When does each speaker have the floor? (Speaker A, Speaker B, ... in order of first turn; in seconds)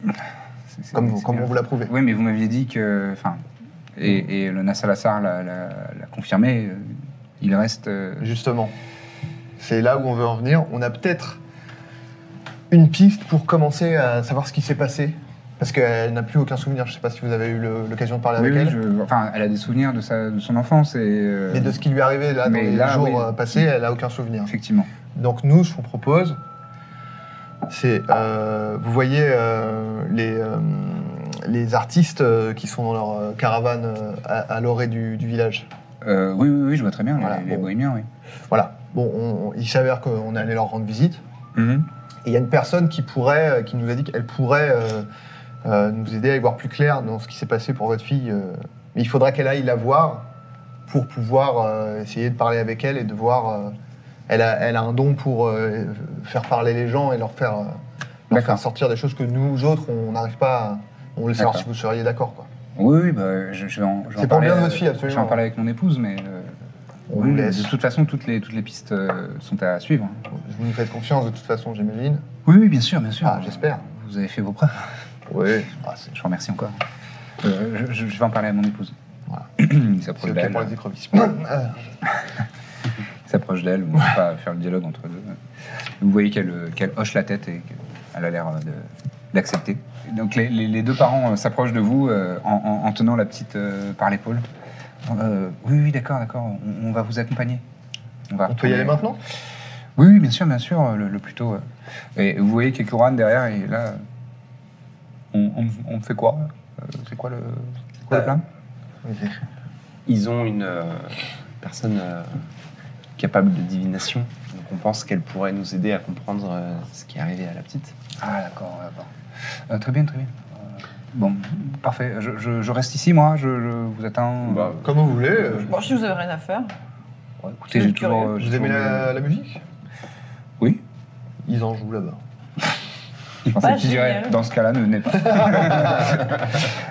Speaker A: 0.8-3.4, 4.0-8.3, 18.4-21.8, 22.4-23.4, 24.5-24.9, 36.0-38.1, 41.6-41.9, 58.3-58.6, 61.4-61.6, 62.8-66.5, 67.1-70.2, 72.5-74.9, 76.1-76.8, 77.4-78.9, 79.6-80.7, 83.3-85.4, 86.0-94.5, 95.1-97.6, 98.3-99.0, 100.0-101.6, 102.2-104.0, 105.3-108.4, 118.2-119.1, 119.7-120.4, 121.1-124.8, 127.6-129.2, 133.4-136.6
Speaker B: 0.9-1.9, 8.2-8.7, 9.6-11.4, 12.7-18.8, 21.5-24.5, 25.1-26.4, 27.7-35.7, 37.2-37.7, 38.5-41.2, 42.2-45.1, 45.6-50.3, 50.9-53.8, 54.3-62.5, 64.2-65.4, 67.1-67.7, 70.3-72.2, 73.2-73.8, 75.3-76.1, 80.2-81.9, 98.5-99.2, 109.0-109.4, 124.8-125.8, 128.4-129.6, 131.4-132.2, 135.5-136.1
Speaker C: 110.1-112.5, 113.2-118.0, 124.4-124.8
Speaker D: 125.6-126.7, 127.7-128.4, 133.6-134.4